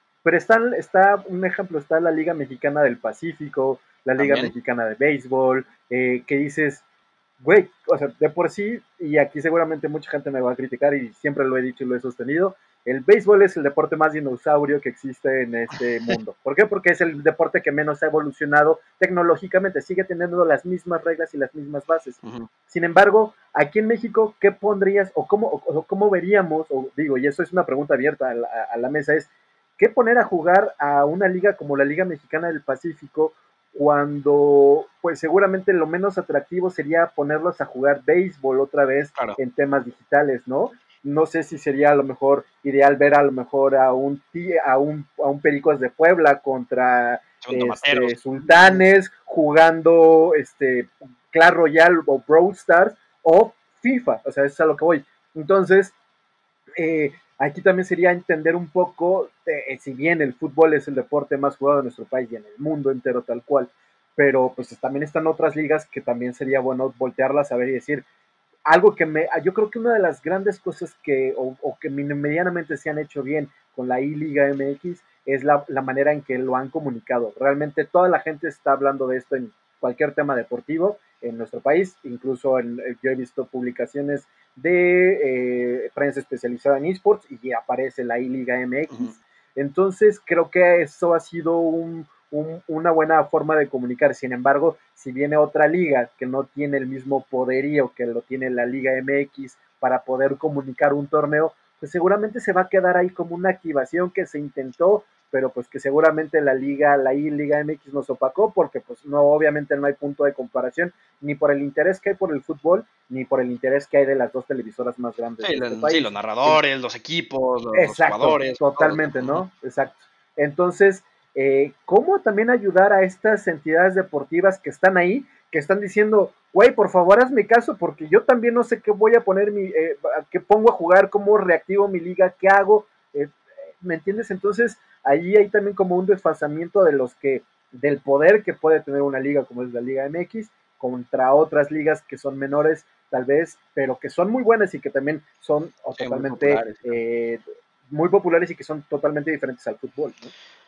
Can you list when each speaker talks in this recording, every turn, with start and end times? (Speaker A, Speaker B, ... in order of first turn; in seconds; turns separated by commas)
Speaker A: 0.2-6.8, Speaker B: 4.2-4.5, Speaker A: 7.4-55.9, Speaker B: 22.2-22.5, Speaker B: 47.4-48.8, Speaker A: 56.8-68.0, Speaker A: 68.7-116.6, Speaker B: 115.4-119.5, Speaker A: 117.8-150.3, Speaker B: 146.0-147.0